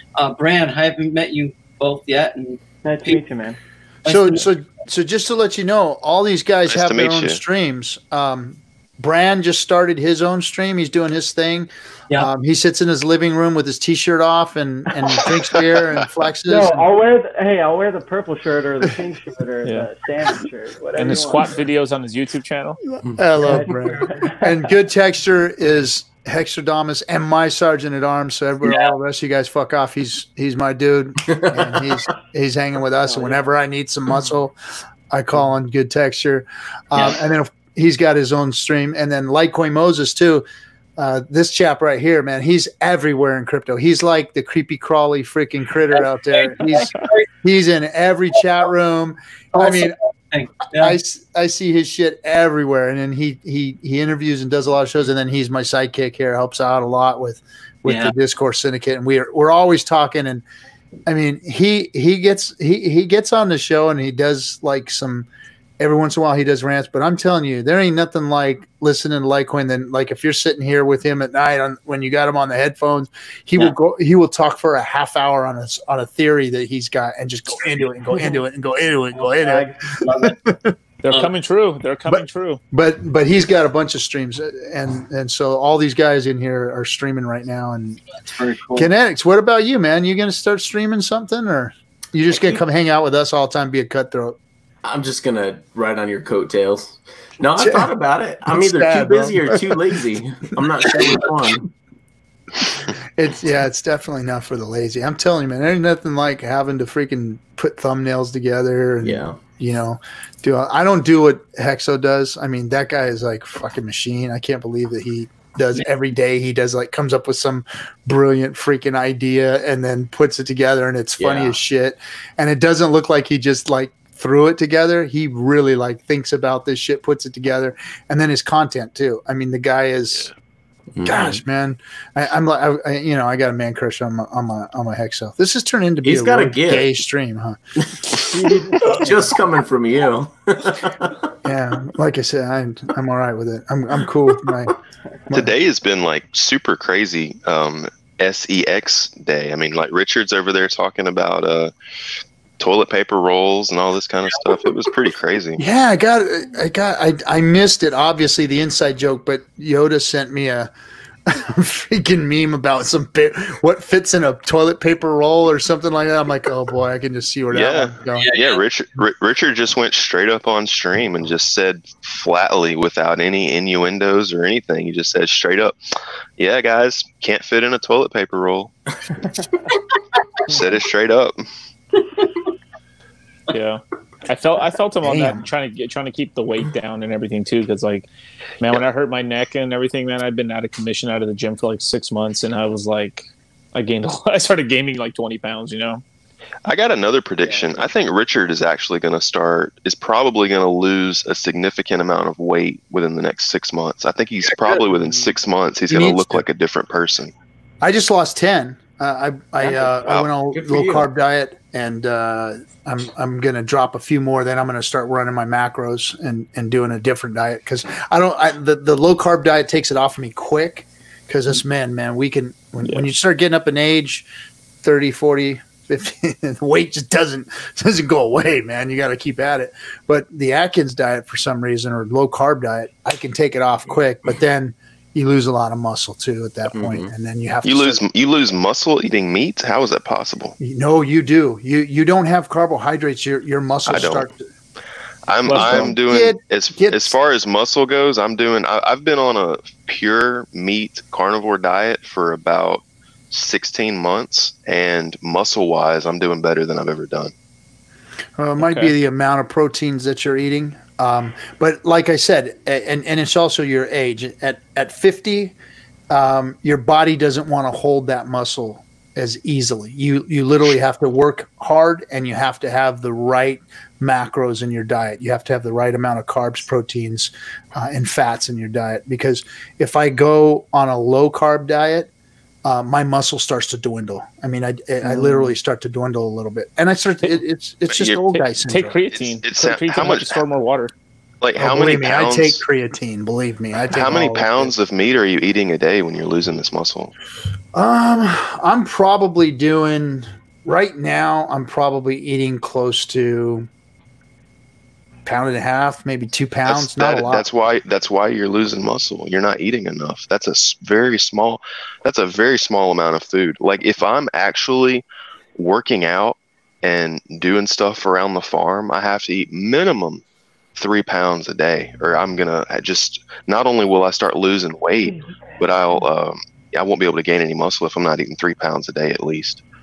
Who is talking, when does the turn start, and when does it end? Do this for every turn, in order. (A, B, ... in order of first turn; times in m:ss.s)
0:00.2-0:03.2 A
0:02.8-0:03.6 B
0:04.0-0:04.4 A
0:04.1-0:16.8 C
0:06.7-0:07.4 D
0:16.4-0:21.6 B
0:19.6-0:19.9 E
0:21.0-0:22.8 E
0:23.1-0:34.5 C
0:23.4-0:24.7 B
0:28.6-0:28.9 A
0:31.3-0:31.8 F
0:33.0-0:33.4 B
0:35.1-0:40.4 C
0:36.9-0:37.2 A
0:41.0-0:50.0 C
0:45.9-0:47.3 A
0:49.5-0:51.0 A
0:50.7-1:00.4 C
0:57.8-0:58.1 A
1:01.1-1:05.3 C
1:05.8-1:19.7 C
1:19.1-1:20.4 B
1:20.2-1:20.7 C
1:21.0-1:22.6 E
1:22.1-1:28.0 C
1:28.2-1:28.9 A
1:28.7-1:34.4 C
1:34.8-1:41.7 F
1:37.6-1:37.9 C
1:38.4-1:39.8 C
1:43.2-2:10.3 C
1:49.0-1:49.4 F
2:01.2-2:01.6 F
2:10.9-2:11.4 F
2:11.0-2:17.6 C
2:16.0-2:16.9 F
2:18.3-2:19.4 B
2:18.8-2:21.3 F
2:21.4-2:24.7 C
2:25.3-2:31.7 D
2:32.6-2:35.6 D
2:35.6-2:40.7 C
2:41.3-2:48.3 C
2:47.5-2:55.8 D
2:48.2-2:48.6 A
2:56.4-2:58.7 D
3:00.5-3:01.4 D
3:03.5-3:08.1 E
3:05.0-3:05.4 C
3:08.6-3:16.0 E
3:16.6-3:27.3 D
3:25.9-3:26.4 C
3:27.8-3:44.3 C
3:29.6-3:29.9 F
3:30.5-3:31.1 F
3:42.8-3:43.1 E
3:44.8-3:58.0 C
3:56.7-3:57.1 F
3:57.6-4:00.6 D
4:00.6-4:04.4 C
4:03.9-4:04.3 D
4:05.3-4:17.3 D
4:05.4-4:05.9 E
4:05.5-4:07.2 C
4:18.4-4:25.5 C
4:18.6-4:18.9 E
4:26.1-4:42.1 C
4:42.6-4:49.0 C
4:45.0-4:45.4 E
4:47.9-4:48.2 D
4:48.3-4:50.9 E
4:49.1-4:50.4 D
4:51.4-4:52.6 D
4:51.6-4:54.7 C
4:53.9-4:57.1 D
4:57.7-5:03.7 C
5:05.2-5:07.4 C
5:06.7-5:15.0 D
5:15.6-5:20.2 D
5:20.8-5:29.6 D